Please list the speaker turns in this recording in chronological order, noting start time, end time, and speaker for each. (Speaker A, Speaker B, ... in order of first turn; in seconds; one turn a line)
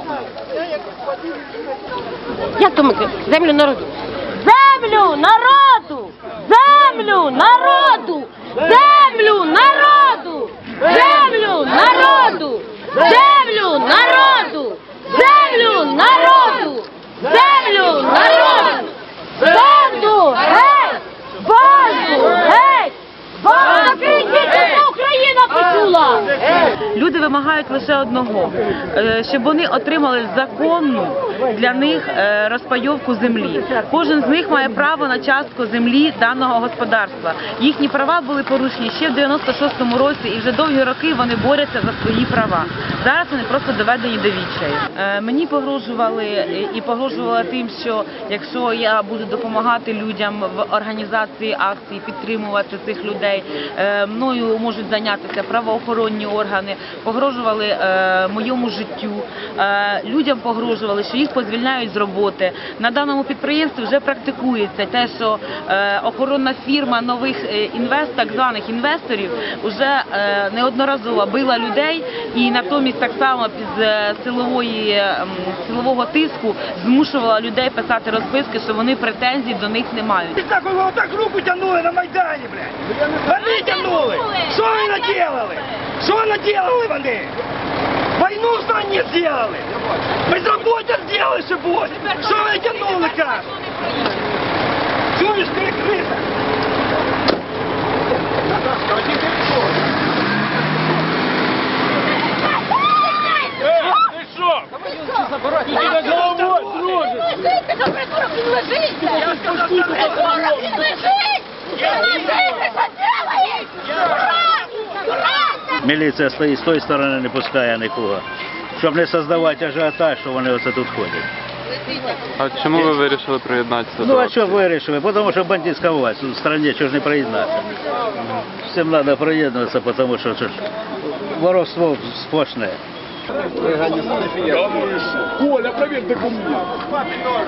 Speaker A: 2.5-26.3
Speaker B: 26.7-80.5
Speaker C: 80.4-87.3
Speaker C: 88.1-89.7
Speaker C: 90.2-93.6
Speaker C: 95.1-96.2
Speaker C: 106.2-107.0
Speaker A: 110.0-110.5
Speaker D: 115.8-118.2
Speaker D: 118.7-121.3
Speaker E: 122.4-124.6
Speaker D: 124.0-127.6
Speaker D: 128.6-130.6
Speaker D: 131.2-132.8
Speaker F: 134.5-136.7